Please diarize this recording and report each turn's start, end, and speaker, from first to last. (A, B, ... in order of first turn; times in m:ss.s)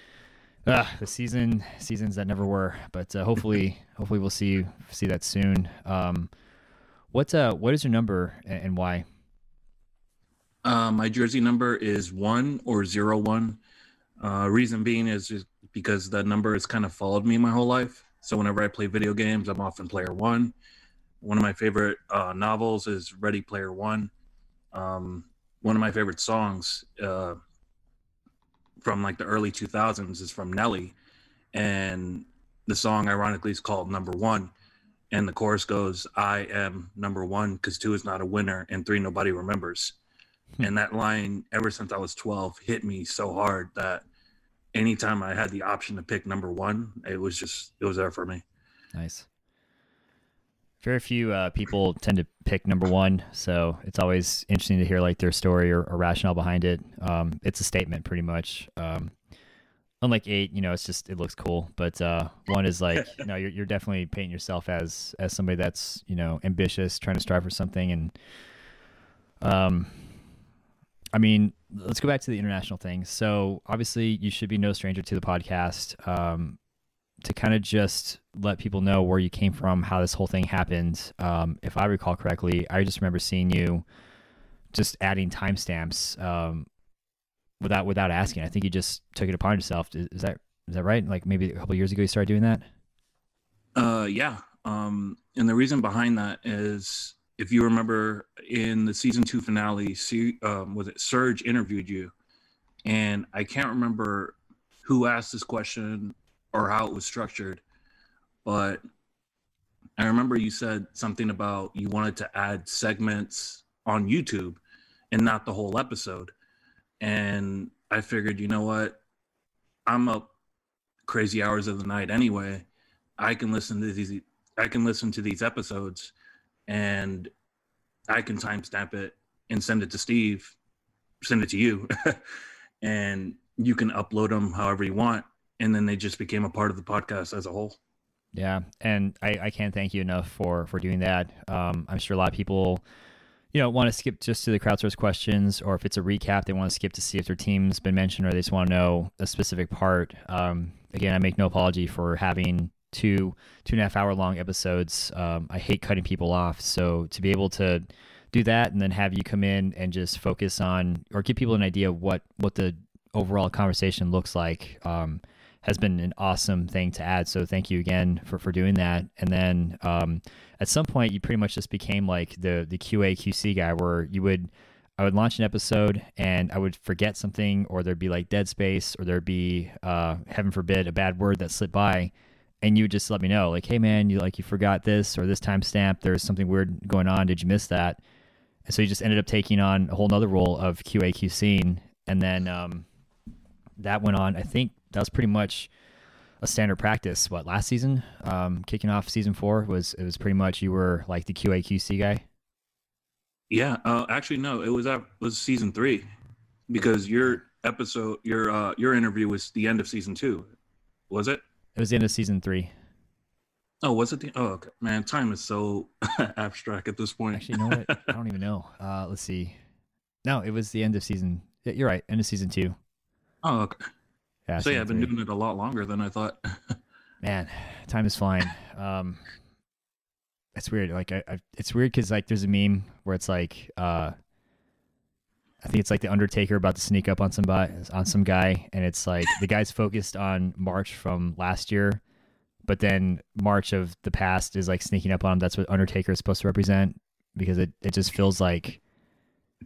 0:00.7-0:06.3 A
0:07.1-0:09.0 A
0:10.6-0:13.6 B
0:14.2-0:20.6 B
0:21.2-0:24.1 B
0:24.7-0:27.4 B
0:28.8-0:31.0 B
0:31.5-0:34.5 B
0:35.1-0:40.0 B
0:40.6-0:44.0 B
0:44.7-0:48.4 B
0:48.9-0:49.3 A
0:50.8-0:59.1 A
1:00.0-1:08.1 A
1:09.4-1:10.1 A
1:11.1-1:16.6 A
1:17.2-1:23.8 A
1:24.7-1:26.7 A
1:27.6-1:32.7 A
1:33.8-1:42.1 B
1:42.8-1:47.6 B
1:48.4-1:48.8 B
1:50.0-1:54.6 B
1:55.1-1:56.3 B
1:57.0-1:59.0 B
1:59.9-2:00.3 B
2:01.1-2:02.7 B
2:03.2-2:06.1 B
2:06.7-2:07.3 B
2:08.1-2:10.6 B
2:11.2-2:17.8 B
2:18.4-2:22.8 A
2:23.5-3:08.0 A
3:08.7-3:12.9 A
3:13.8-3:15.7 A
3:16.4-3:22.2 A
3:23.5-3:26.1 B
3:26.7-3:30.5 B
3:31.1-3:31.4 B
3:31.8-3:32.7 A
3:33.8-3:38.1 B
3:37.3-3:39.6 A
3:40.2-3:42.8 A
3:43.4-3:43.8 B
3:44.5-3:45.1 A
3:44.6-3:46.8 B
3:47.2-3:49.3 A
3:50.6-3:54.2 A
3:55.6-4:02.0 A
4:02.7-4:08.8 A